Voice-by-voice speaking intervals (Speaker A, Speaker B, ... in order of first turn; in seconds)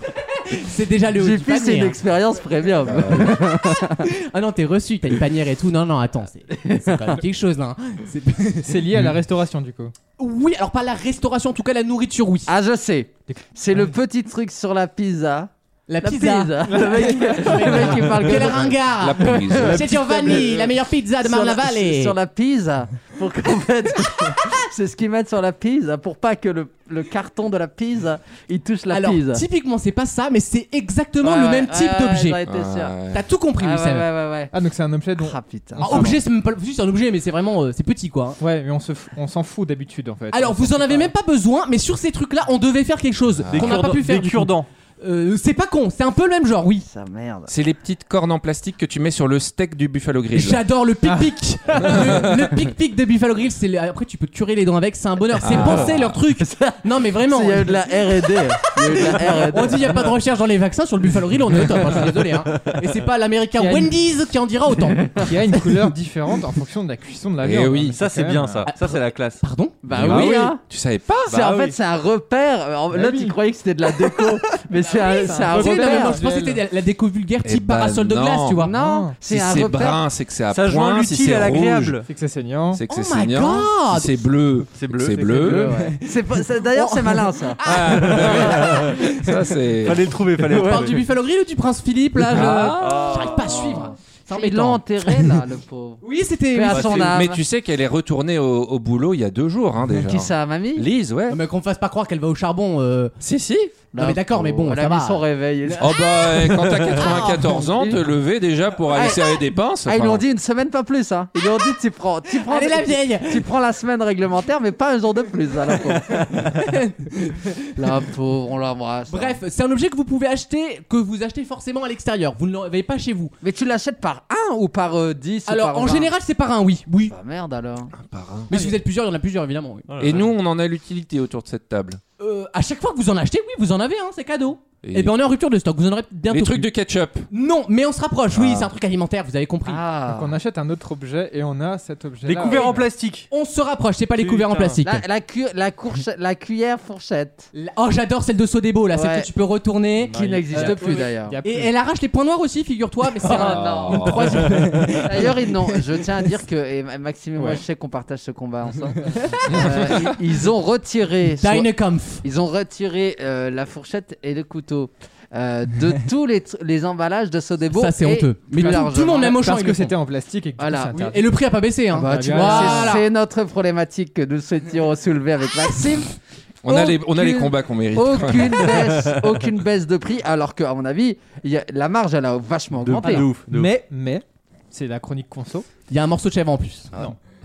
Speaker A: 0.4-2.0, 4.0-8.9, 10.2-12.5, 15.9-22.1, 28.9-32.4, 33.1-34.1, 35.8-38.4, 40.3-46.9, 50.3-57.8, 58.8-65.1, 68.7-70.5, 74.8-78.7, 82.9-84.1, 85.8-86.1, 86.7-89.0, 90.5-95.3, 96.0-97.1, 101.3-103.1, 104.0-106.0, 106.9-107.6, 112.4-113.5, 116.5-117.7, 119.1-123.3, 125.5-127.2, 128.5-129.9, 132.2-136.7, 137.3-139.8, 142.4-145.0, 147.5-155.8, 161.4-162.2, 167.7-169.9, 170.9-173.0, 185.9-186.9
Speaker B: 1.1-4.1, 6.5-7.2, 12.5-15.5, 16.0-29.4, 31.2-33.0, 33.6-34.5, 35.2-36.2, 46.9-47.5, 55.5-60.0, 65.0-65.6, 69.8-70.6, 71.3-76.2, 78.6-80.0, 85.4-87.6, 93.3-97.4, 99.9-100.9, 103.9-106.0, 107.0-108.0, 108.9-116.6, 117.8-119.4, 123.4-126.1, 127.0-127.9, 139.7-140.3, 144.8-147.5, 148.9-149.3, 150.1-151.4, 153.2-169.4, 170.6-171.0, 171.9-176.1, 176.6-183.3
Speaker C: 2.9-3.4, 19.0-19.9, 32.5-33.2, 43.4-43.9, 47.5-50.6, 51.9-52.3, 55.4-56.2, 67.4-68.0, 69.9-71.3, 77.5-78.6, 79.3-82.0, 82.8-85.7, 87.6-90.1, 92.3-93.2, 96.7-101.4, 103.2-103.7, 105.8-110.2, 128.0-128.5, 130.0-132.0, 134.8-135.1, 136.3-137.3, 138.3-138.7, 153.3-154.5, 159.5-160.2, 176.6-178.8
Speaker D: 8.7-9.9, 16.7-17.3, 34.5-36.2, 38.4-41.1, 51.0-51.3, 63.6-63.9, 65.2-68.7, 72.9-73.3, 75.0-76.6, 78.7-79.1, 82.1-82.8, 140.1-142.8, 150.2-151.7, 168.6-171.3, 172.1-172.9, 183.0-185.7
Speaker E: 43.5-44.7, 67.9-69.4, 71.3-71.8, 80.5-82.1, 84.8-85.8, 88.2-88.9, 89.8-91.0, 92.8-93.6, 129.9-130.3, 142.2-143.3, 144.2-144.8, 150.1-150.6, 182.8-183.7